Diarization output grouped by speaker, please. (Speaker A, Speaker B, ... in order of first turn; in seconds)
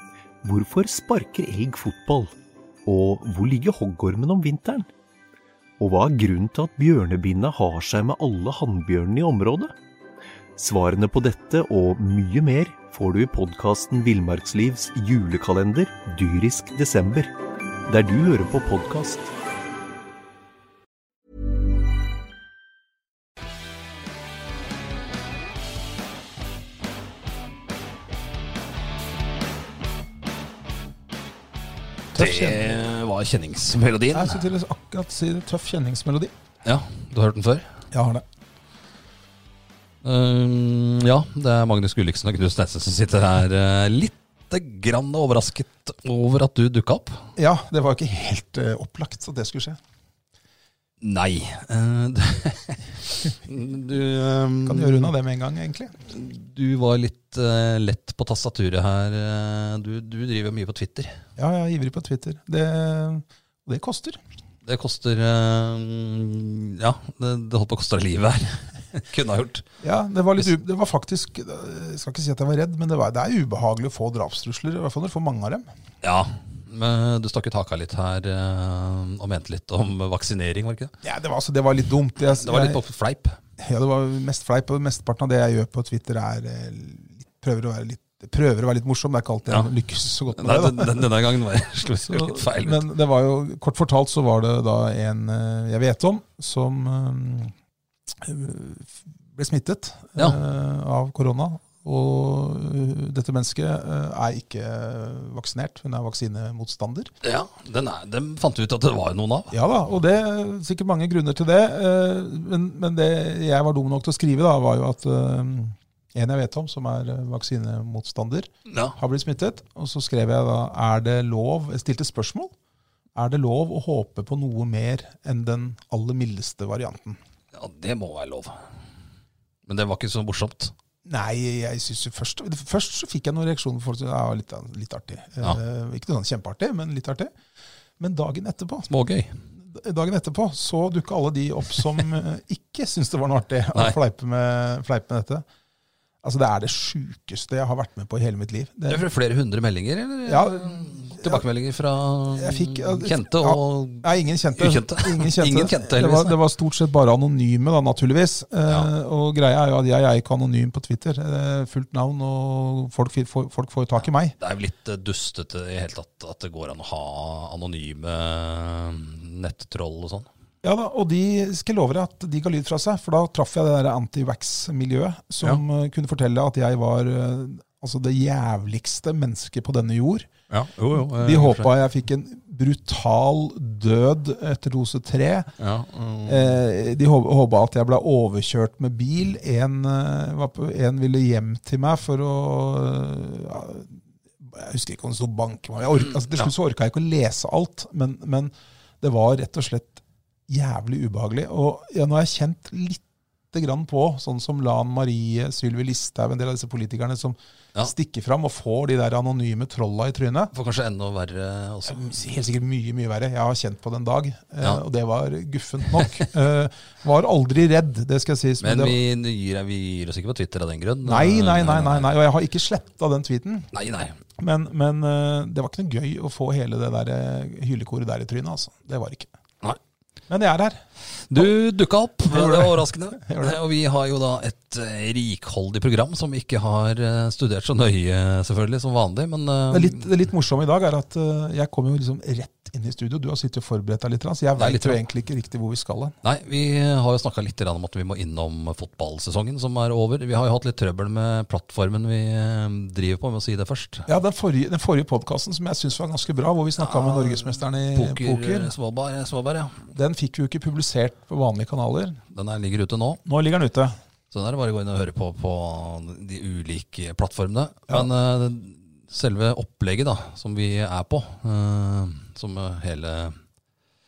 Speaker A: 0.4-2.3, 2.9-4.9, 5.8-9.7, 10.6-17.3, 17.9-19.3
Speaker B: 32.1-32.6, 34.1-36.3, 37.9-38.2, 47.4-49.8, 54.7-56.0, 61.4-64.2, 69.8-75.7, 81.0-82.8, 83.6-91.1, 92.1-97.5, 98.2-107.1, 109.5-122.5, 123.2-127.2, 131.1-137.3, 138.0-138.9, 139.6-145.4, 146.2-149.1, 150.3-151.5, 152.3-164.3, 170.6-180.3, 180.9-185.5, 186.3-210.5, 211.9-219.0, 221.0-223.7, 224.4-229.3, 230.3-230.8, 232.3-233.6, 239.7-246.2, 254.1-258.7, 259.9-262.2, 263.2-263.9
Speaker C: 32.1-34.4, 36.6-37.7, 40.0-47.3, 51.0-55.1, 56.1-61.2, 64.6-69.7, 76.0-80.9, 82.4-83.4, 90.3-92.9, 107.2-109.5, 118.7-119.0, 127.5-128.6, 129.7-130.7, 138.9-139.4, 148.9-156.4, 164.4-170.3, 180.5-181.7, 185.6-186.6, 210.5-212.1, 218.6-222.1, 223.7-224.2, 231.3-240.1, 244.6-245.0, 246.2-254.1, 256.8-259.9, 262.3-263.2, 264.3-273.4